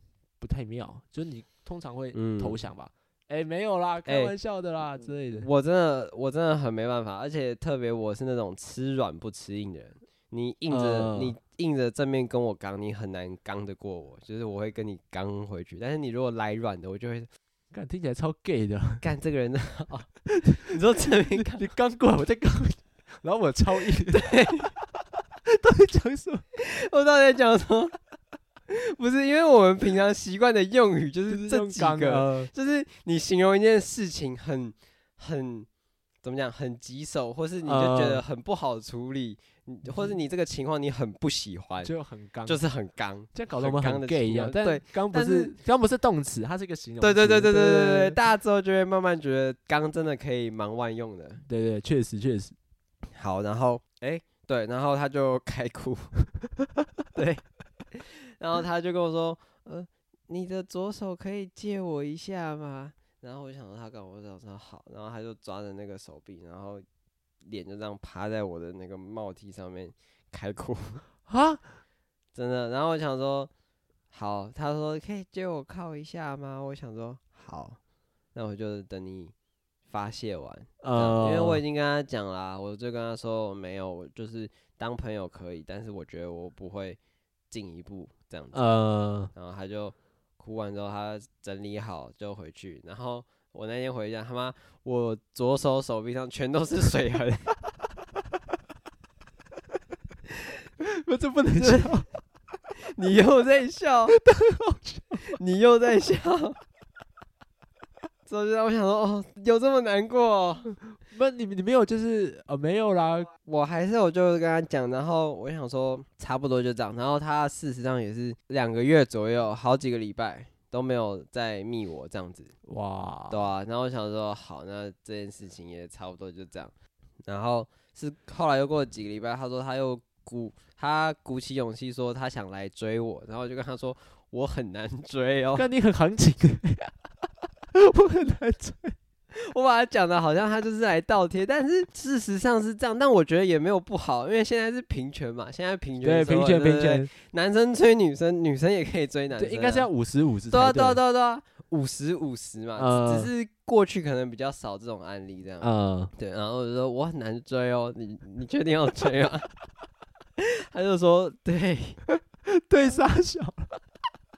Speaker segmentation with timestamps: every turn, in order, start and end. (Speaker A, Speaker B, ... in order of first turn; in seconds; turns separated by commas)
Speaker A: 0.4-5.5, Speaker B: 2.1-2.6, Speaker B: 4.0-4.3, Speaker B: 5.4-17.3, Speaker A: 10.7-11.3, Speaker A: 17.7-19.0, Speaker B: 19.0-20.1, Speaker A: 20.3-20.7, Speaker B: 20.6-21.6, Speaker A: 21.4-26.4, Speaker B: 24.1-24.7, Speaker B: 26.5-27.9, Speaker B: 28.7-35.7, Speaker A: 31.3-32.5, Speaker B: 36.2-41.9, Speaker A: 37.6-38.2, Speaker A: 41.8-42.6, Speaker B: 42.5-45.5, Speaker A: 43.3-48.2, Speaker B: 47.0-51.4, Speaker A: 51.5-52.5, Speaker B: 53.1-56.1, Speaker B: 57.1-66.8, Speaker B: 67.4-71.0, Speaker A: 71.3-71.6, Speaker B: 72.3-73.5, Speaker B: 74.1-77.8, Speaker B: 78.3-79.3, Speaker B: 79.9-87.0, Speaker A: 80.8-81.6, Speaker B: 87.5-88.6, Speaker A: 88.5-89.3, Speaker B: 89.3-97.5, Speaker A: 100.8-102.1, Speaker B: 101.5-101.9, Speaker B: 102.9-104.2, Speaker A: 104.1-105.4, Speaker B: 105.2-106.6, Speaker B: 108.3-110.8, Speaker A: 111.0-113.3, Speaker B: 113.5-122.5, Speaker A: 122.7-123.3, Speaker B: 123.3-126.7, Speaker B: 127.3-135.7, Speaker A: 135.6-137.1, Speaker A: 137.7-138.9, Speaker B: 139.3-149.9, Speaker A: 146.0-147.1, Speaker A: 149.4-151.0, Speaker B: 150.5-159.5, Speaker A: 152.8-153.3, Speaker A: 155.6-156.1, Speaker B: 160.4-162.0, Speaker A: 162.4-163.8